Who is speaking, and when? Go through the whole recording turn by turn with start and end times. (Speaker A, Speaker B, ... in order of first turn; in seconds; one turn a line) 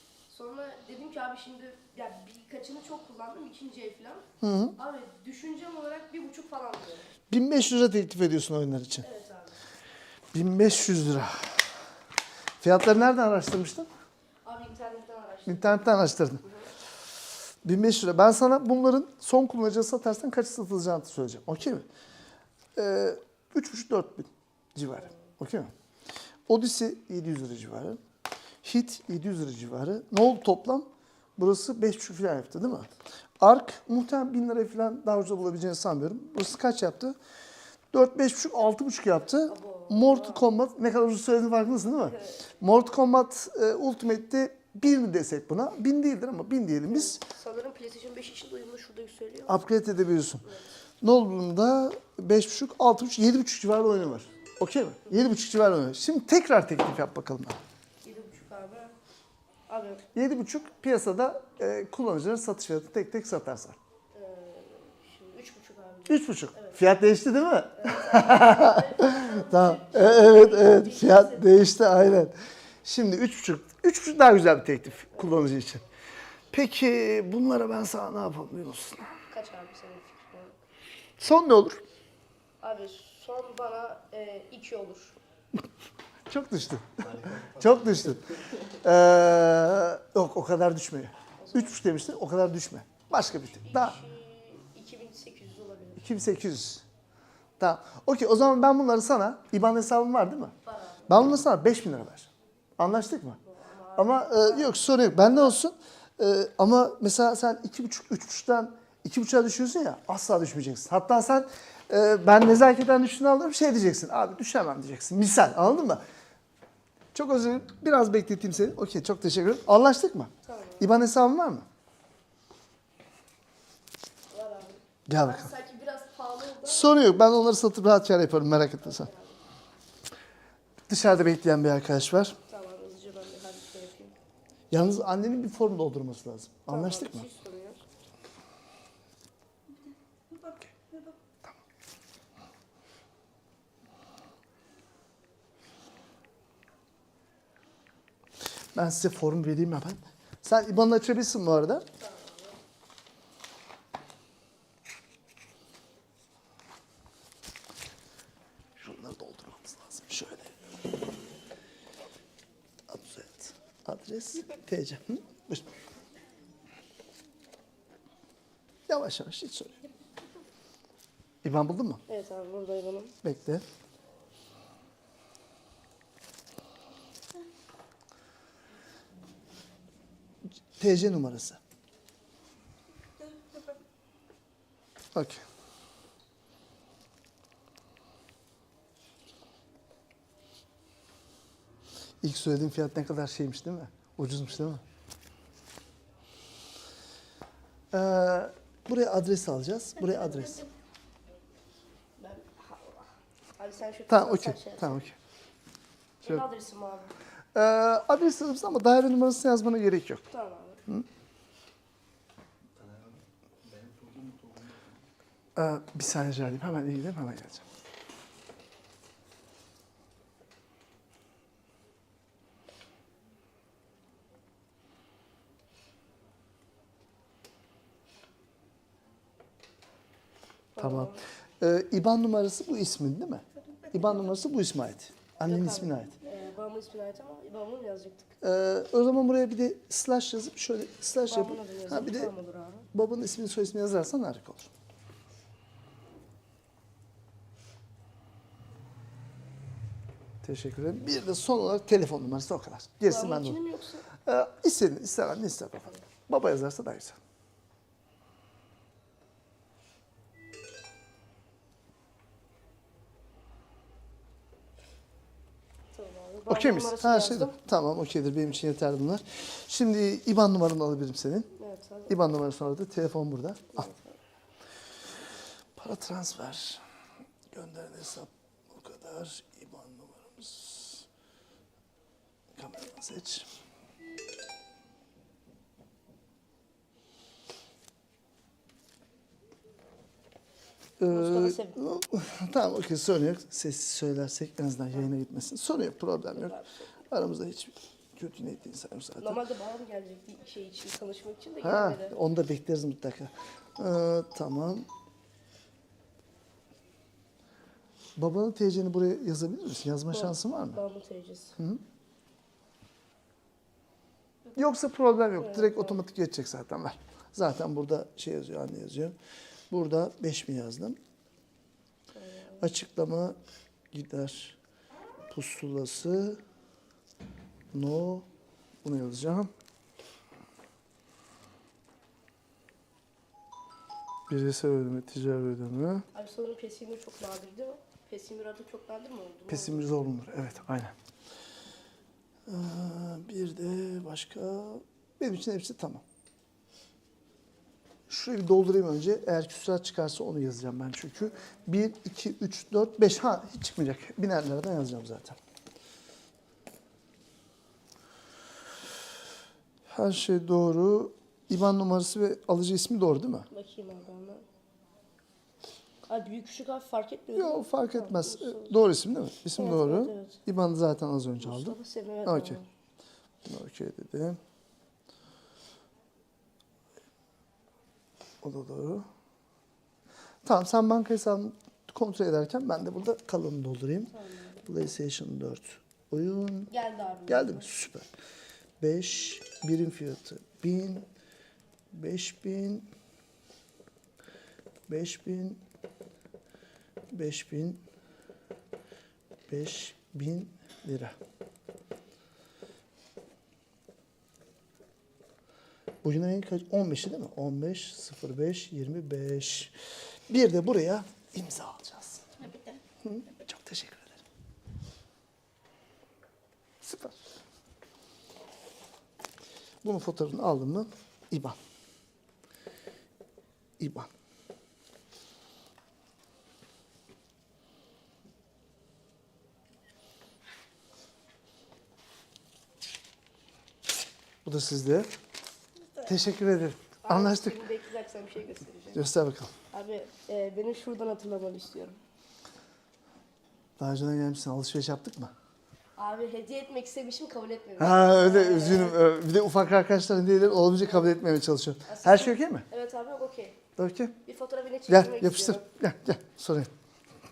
Speaker A: 0.3-4.2
Speaker B: 4.4-4.7
Speaker A: 4.8-7.1
Speaker B: 7.3-9.1
Speaker A: 9.0-9.6
Speaker B: 10.3-11.6
Speaker B: 12.6-13.9
Speaker A: 14.4-16.6
Speaker B: 15.4-16.4
Speaker B: 17.6-21.9
Speaker B: 22.7-25.7
Speaker B: 26.5-28.0
Speaker B: 28.6-37.1
Speaker B: 37.9-47.2
Speaker A: 39.5-40.4
Speaker A: 42.1-42.4
Speaker A: 46.9-49.6
Speaker B: 49.5-50.4
Speaker B: 51.0-57.6
Speaker A: 58.0-58.9
Speaker A: 59.7-60.0
Speaker B: 60.1-63.8
Speaker A: 64.1-66.8
Speaker B: 66.1-72.3
Speaker A: 67.8-71.5
Speaker B: 72.8-75.8
Speaker B: 76.5-79.1
Speaker A: 79.3-80.5
Speaker B: 81.2-81.8
Speaker A: 82.6-85.2
Speaker B: 86.3-88.2
Speaker C: 87.0-88.4
Speaker B: 88.8-94.0
Speaker A: 91.4-91.8
Speaker A: 93.6-96.1
Speaker B: 96.0-96.8
Speaker B: 97.6-100.5
Speaker A: 100.6-101.1
Speaker B: 101.1-103.4
Speaker A: 103.4-105.5
Speaker B: 104.0-116.0
Speaker B: 117.1-121.7
Speaker A: 120.4-120.9
Speaker A: 124.3-127.0
Speaker B: 125.1-125.5
Speaker B: 126.6-129.1
Speaker A: 128.8-129.4
Speaker B: 130.9-132.3
Speaker A: 132.5-134.2
Speaker B: 134.7-137.3
Speaker A: 136.7-137.8
Speaker B: 140.4-140.7
Speaker B: 148.7-151.8
Speaker A: 151.9-152.6
Speaker B: 158.8-160.5
Speaker B: 162.9-165.7
Speaker B: 168.9-169.8
Speaker B: 171.4-172.0
Speaker A: 172.1-173.1
Speaker B: 173.2-173.6
Speaker B: 180.8-181.6
Speaker B: 185.1-185.4
Speaker B: 192.2-194.8
Speaker B: 197.9-200.6
Speaker A: 202.2-205.0
Speaker B: 204.1-205.2
Speaker A: 206.2-207.1
Speaker B: 207.5-210.2
Speaker A: 210.3-210.8
Speaker C: 212.7-215.0
Speaker B: 215.6-217.6
Speaker A: 230.7-231.2
Speaker B: 230.8-236.1
Speaker A: 235.4-238.3
Speaker B: 238.4-242.3
Speaker A: 241.2-242.9
Speaker B: 242.9-244.7
Speaker B: 250.4-253.6
Speaker A: 253.1-254.1
Speaker B: 254.2-257.2
Speaker A: 265.9-267.5
Speaker B: 266.5-271.5
Speaker A: 271.6-272.2
Speaker B: 272.1-273.9
Speaker A: 273.7-274.2
Speaker B: 275.8-276.8
Speaker B: 277.5-281.0
Speaker B: 282.6-283.5
Speaker B: 291.0-296.6
Speaker A: 291.1-291.8
Speaker A: 296.3-296.8
Speaker B: 297.1-299.4
Speaker A: 299.2-302.2
Speaker B: 301.6-304.9
Speaker B: 308.1-310.8
Speaker A: 310.1-311.6
Speaker B: 311.6-311.8
Speaker B: 314.5-319.1
Speaker A: 315.4-316.0
Speaker B: 319.7-321.0
Speaker A: 322.1-322.7
Speaker B: 322.6-323.4
Speaker B: 323.9-324.6
Speaker B: 325.3-326.4
Speaker B: 327.7-328.2
Speaker B: 328.8-329.5
Speaker B: 334.3-336.0
Speaker A: 336.1-339.9
Speaker B: 339.5-340.9
Speaker B: 342.5-346.0
Speaker B: 348.1-355.4
Speaker B: 359.9-363.5
Speaker A: 363.5-364.4
Speaker A: 366.1-368.7
Speaker B: 367.3-372.6
Speaker A: 369.6-370.4
Speaker A: 371.4-372.7
Speaker B: 373.4-374.4
Speaker B: 378.4-379.1
Speaker B: 380.4-384.1
Speaker A: 384.1-384.8
Speaker B: 384.6-386.7
Speaker A: 386.7-387.7
Speaker B: 387.3-388.1
Speaker B: 388.8-391.1
Speaker B: 391.9-392.9
Speaker B: 394.9-395.6
Speaker B: 397.1-397.8
Speaker B: 399.5-401.1
Speaker B: 406.0-409.7
Speaker B: 410.3-412.2
Speaker B: 413.0-414.2
Speaker B: 416.8-417.2
Speaker B: 419.8-421.6
Speaker B: 423.8-424.1
Speaker B: 434.4-435.1
Speaker B: 436.1-437.6
Speaker A: 437.0-439.1
Speaker B: 438.9-439.5
Speaker A: 439.7-442.0
Speaker B: 443.8-445.3
Speaker A: 445.9-449.0
Speaker B: 447.8-452.6
Speaker A: 451.9-453.6
Speaker B: 453.8-454.1
Speaker A: 454.2-455.6
Speaker B: 454.9-456.7